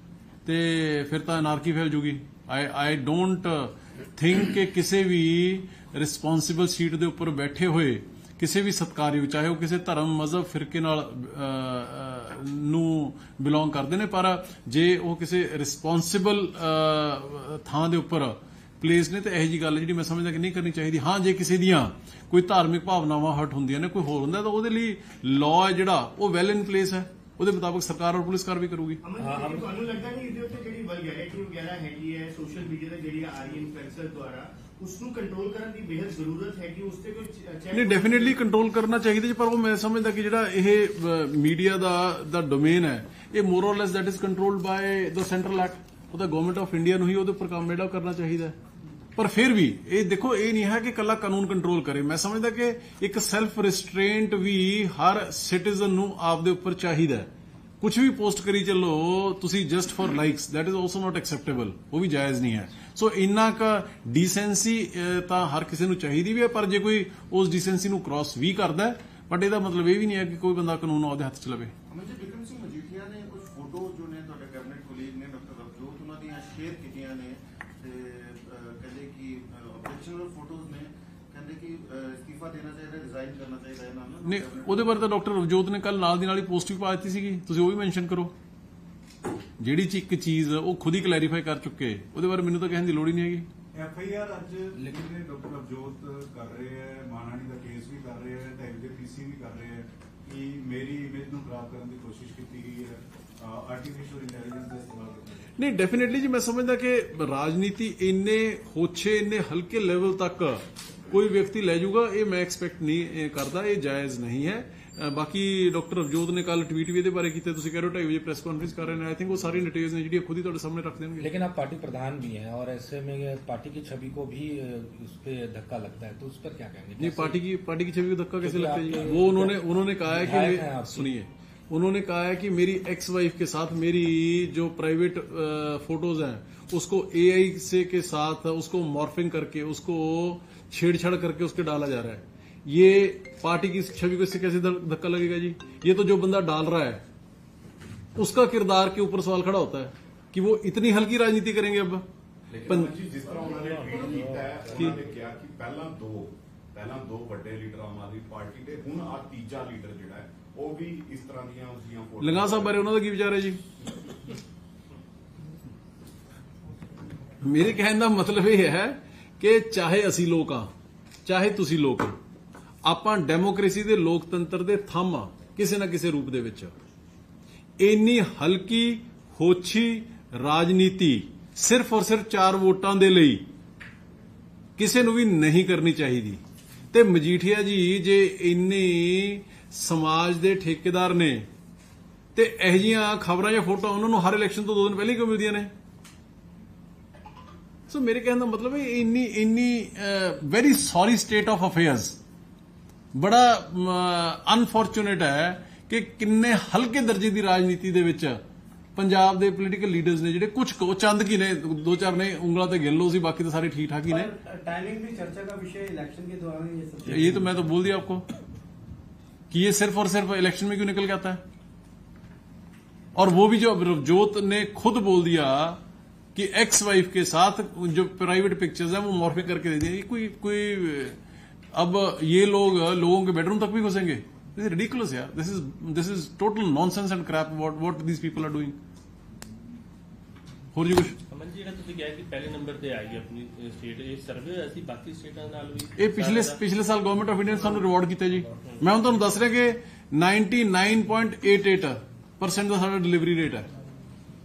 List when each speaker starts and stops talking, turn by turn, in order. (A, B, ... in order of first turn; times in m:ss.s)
0:00.4-0:29.0 A
0:29.0-0:38.3 B
0:29.2-0:29.7 C
0:37.7-0:48.6 A
0:49.2-0:57.3 A
0:57.8-1:11.7 A
1:11.9-1:25.0 D
1:24.2-1:28.3 A
1:29.6-1:33.5 A
1:33.7-1:45.5 E
1:34.7-1:35.0 C
1:45.6-2:01.3 A
2:01.2-2:07.4 C
2:07.0-2:27.0 A
2:08.4-2:11.2 C
2:28.2-2:32.0 A
2:32.5-2:42.8 E
2:32.7-2:32.9 A
2:33.6-2:34.9 C
2:42.2-2:43.6 A
2:47.4-2:50.7 A
2:51.2-2:52.2 A
2:52.8-2:56.7 A
2:57.8-3:03.4 A
3:04.8-3:06.4 A
3:06.9-3:11.5 A
3:12.3-3:15.7 A
3:17.9-3:22.2 A
3:23.1-3:28.4 A
3:29.0-3:34.3 A
3:34.1-3:37.5 F
3:37.0-3:38.2 A
3:39.5-3:41.4 A
3:43.1-3:45.8 A
3:46.3-3:51.2 A
3:51.7-3:58.8 A
4:00.7-4:01.2 A
4:02.3-4:03.3 G
4:04.0-4:06.6 G
4:06.0-4:13.7 A